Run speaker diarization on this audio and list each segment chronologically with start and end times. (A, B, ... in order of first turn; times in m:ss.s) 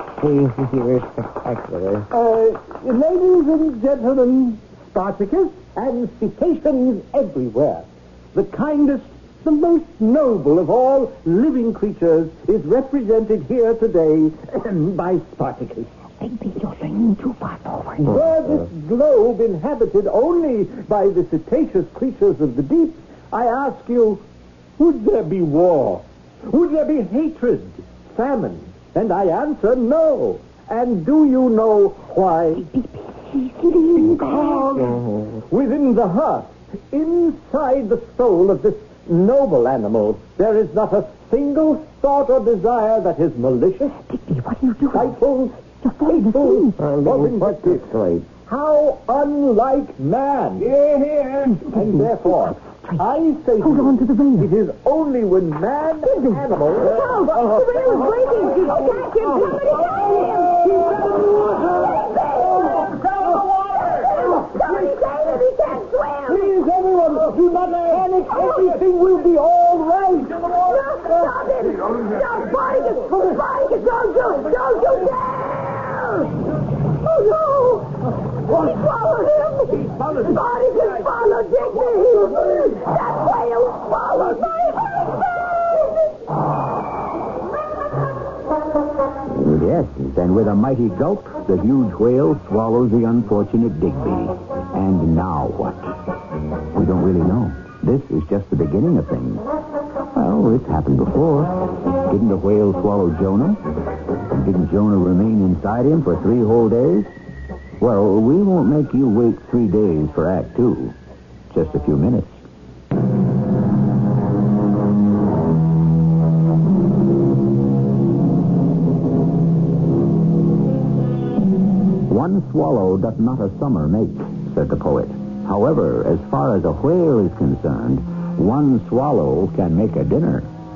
0:00.2-0:02.1 A
0:02.1-0:15.9 B
0:16.2-0:18.1 C
0:18.0-0:24.2 B
0:24.8-0:32.7 B
0:32.5-0:34.8 C
0:34.0-0:44.0 B
0:44.0-0:45.2 C
0:44.9-0:50.8 B
0:45.8-0:46.8 C
0:46.8-0:48.3 A
0:51.4-0:53.1 C
0:51.6-0:58.8 B
0:53.6-0:54.5 C
0:56.0-1:01.0 C
0:59.4-0:59.6 B
1:00.6-1:01.2 B
1:01.7-1:06.6 C
1:02.8-1:04.0 B
1:06.3-1:11.3 B
1:08.1-1:08.8 C
1:10.5-1:16.4 C
1:17.0-1:26.1 C
1:20.0-1:20.4 B
1:29.3-1:36.0 D
1:36.7-1:39.5 D
1:40.1-1:43.6 D
1:44.3-1:47.1 D
1:47.8-1:51.0 D
1:51.5-1:52.4 D
2:02.1-2:10.5 D